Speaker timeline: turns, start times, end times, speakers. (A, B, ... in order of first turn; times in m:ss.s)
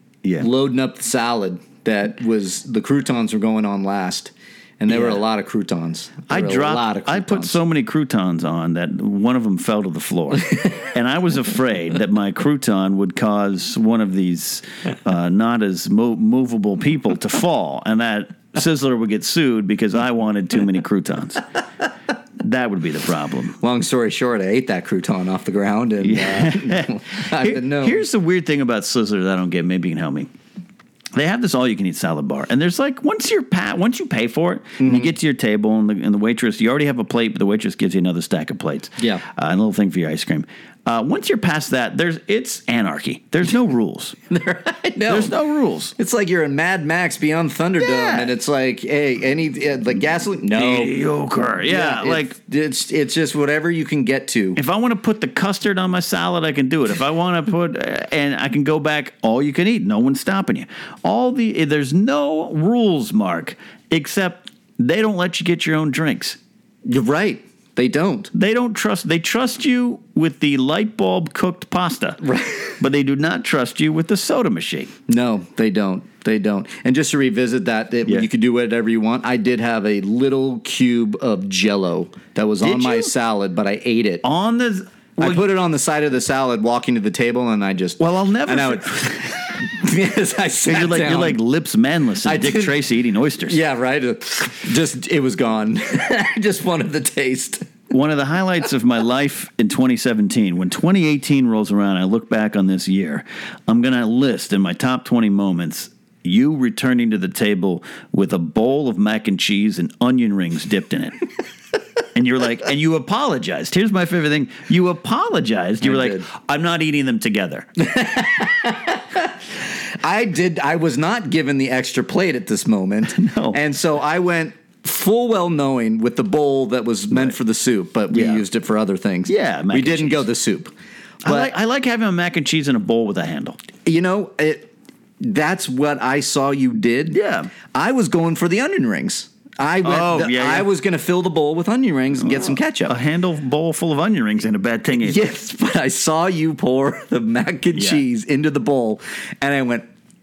0:00.2-0:00.5 A
0:00.4-0:07.6 B
0:04.9-0:05.2 A
0:06.3-0:21.4 A
0:22.4-0:23.6 A
0:23.6-0:28.0 B
0:26.0-0:30.3 A
0:31.1-0:44.2 A
0:34.8-0:35.1 B
0:39.0-0:39.2 B
0:44.3-0:45.4 B
0:45.1-0:45.9 A
0:46.0-0:51.0 B
0:47.8-0:48.3 A
0:50.5-0:52.4 A
0:51.6-0:54.6 B
0:54.6-1:06.4 A
1:06.9-1:08.3 B
1:08.3-1:12.2 A
1:12.2-1:12.8 B
1:12.8-1:14.9 A
1:15.1-1:24.2 B
1:22.6-1:23.1 A
1:24.2-1:25.5 A
1:25.2-1:31.4 B
1:28.0-1:29.2 A
1:30.7-1:33.6 A
1:32.2-1:32.8 B
1:33.4-1:37.7 B
1:37.9-1:51.2 A
1:52.1-1:57.7 A
1:55.8-1:56.3 B
1:57.8-2:10.7 B
2:03.0-2:03.6 A
2:08.1-2:08.5 A
2:09.3-2:10.3 A
2:11.2-2:13.6 A
2:11.2-2:11.5 B
2:13.8-2:23.0 B
2:17.1-2:17.5 A
2:19.8-2:20.7 A
2:22.2-2:25.3 A
2:25.0-2:29.9 B
2:27.7-2:28.0 A